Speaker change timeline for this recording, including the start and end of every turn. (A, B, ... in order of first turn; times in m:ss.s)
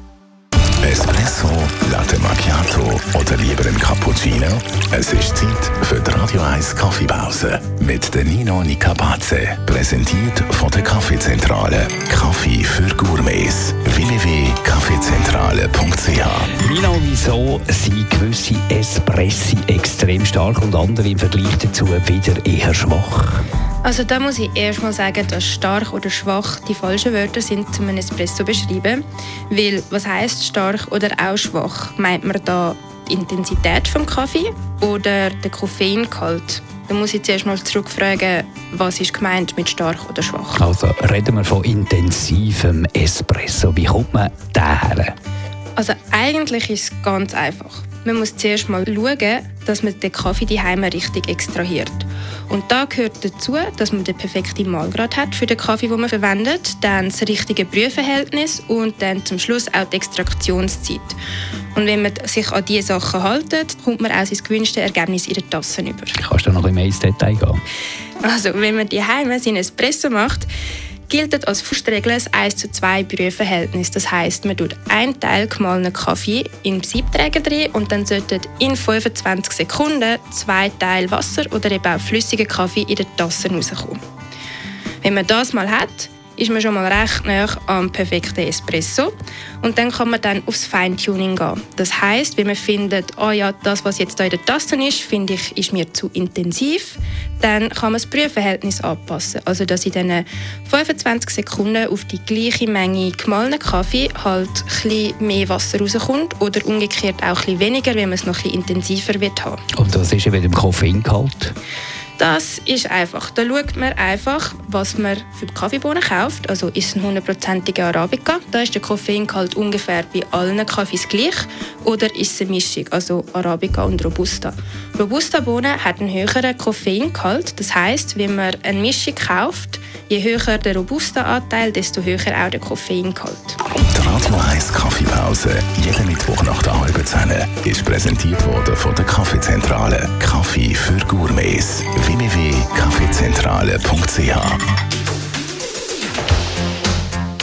0:00.8-0:16.5 A
0:16.6-0:23.4 B
0:23.8-0:40.6 C
0:40.6-0:45.1 B
0:45.8-1:01.2 C
1:01.8-1:06.2 C
1:06.2-1:07.6 B
1:08.2-1:10.5 C
1:11.1-1:24.0 C
1:25.0-1:49.6 C
1:49.7-1:51.6 B
1:52.2-2:13.6 C
2:13.9-2:24.6 A